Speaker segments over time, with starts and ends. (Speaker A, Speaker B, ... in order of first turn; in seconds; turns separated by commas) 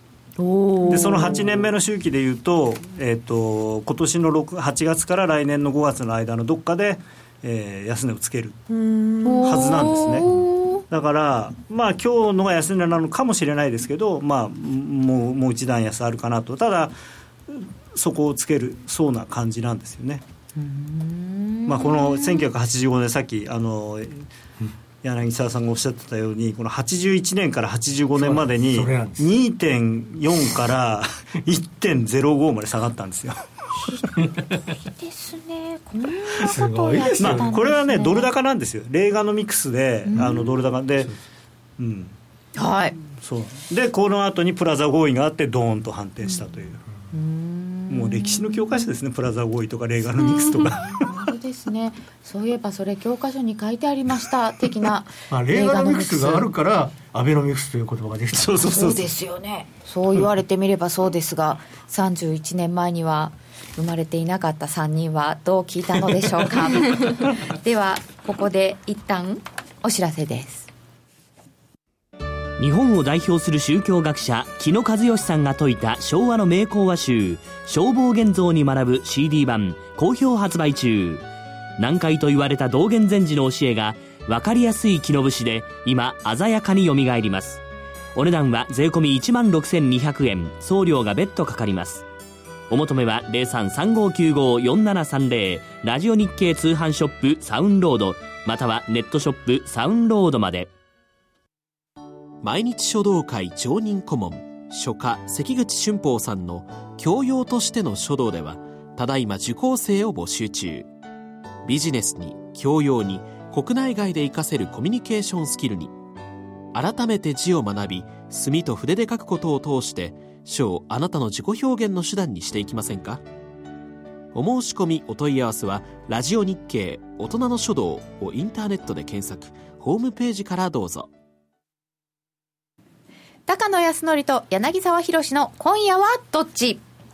Speaker A: 0.4-1.5, Speaker B: 0.8-8.6, Speaker A: 9.2-10.8, Speaker B: 9.4-10.3, Speaker B: 10.9-16.9, Speaker B: 17.5-20.2, Speaker A: 20.6-22.5, Speaker B: 21.6-24.3, Speaker B: 25.0-33.4, Speaker C: 28.1-29.3, Speaker A: 34.6-38.3, Speaker C: 36.4-37.5, Speaker B: 37.2-41.1, Speaker A: 40.0-40.4, Speaker C: 40.1-40.4, Speaker B: 41.8-42.1, Speaker A: 42.5-43.0, Speaker B: 43.1-46.8, Speaker A: 47.1-48.6, Speaker B: 47.9-51.0, Speaker A: 50.2-56.5, Speaker C: 55.3-58.7, Speaker B: 58.3-59.1, Speaker A: 58.6-70.7, Speaker D: 72.6-81.2, Speaker D: 81.8-87.6, Speaker D: 88.1-92.0, Speaker D: 92.7-100.7, Speaker E: 102.4-110.9, Speaker E: 111.6-115.9, Speaker E: 116.7-123.2, Speaker E: 124.3-131.1, Speaker A: 133.5-136.8